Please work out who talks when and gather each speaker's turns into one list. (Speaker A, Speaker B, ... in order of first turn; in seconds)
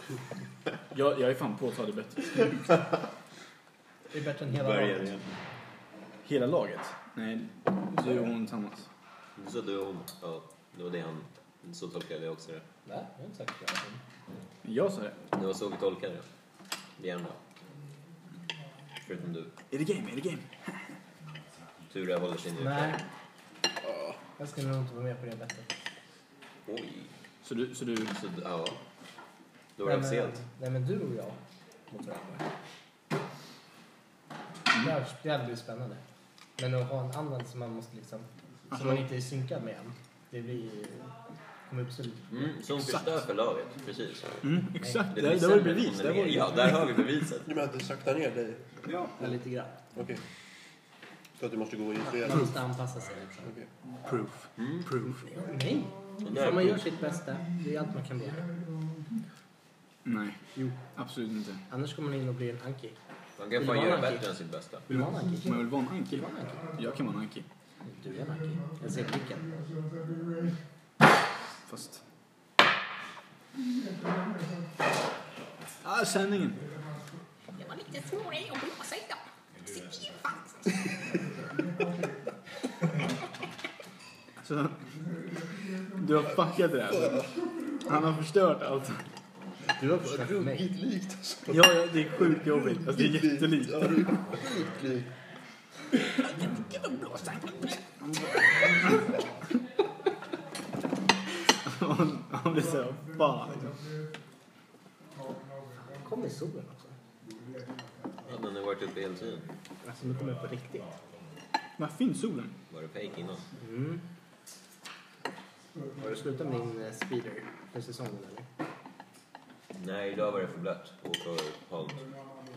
Speaker A: 0.9-2.7, 6.2-8.9, 14.6-15.2, 19.7-20.5, 27.4-28.1, 38.7-39.0, 44.4-47.0, 54.0-55.3, 60.0-60.4, 60.9-61.6, 65.4-67.5, 71.7-72.0, 75.8-76.6, 84.4-84.8, 86.0-87.3, 87.8-89.0, 91.5-94.1, 96.0-99.0, 101.6-103.8, 111.8-112.5
Speaker B: 4.1-5.1, 12.8-14.0, 22.6-23.0, 24.4-25.7, 29.8-32.4, 34.8-36.0, 36.6-41.1, 41.7-42.5, 44.8-45.0, 49.2-49.8, 52.0-53.5, 55.2-58.5, 61.7-63.0, 63.5-64.2, 64.9-66.8, 67.8-69.6, 89.8-90.7, 105.8-107.0, 109.8-111.0, 113.6-114.0, 116.0-118.5
Speaker C: 4.5-5.2, 9.4-12.7, 15.3-16.3, 17.0-17.4, 19.0-19.5, 21.9-23.0, 26.6-27.1, 28.1-28.8, 29.8-30.4, 42.3-44.4, 45.1-47.5, 54.6-54.8, 56.2-56.8, 63.4-64.9, 108.2-109.5, 112.7-113.5, 119.8-122.0
Speaker D: 47.5-48.7, 49.9-50.2, 51.4-52.5, 86.8-87.3, 89.8-95.1
Speaker E: 77.5-80.8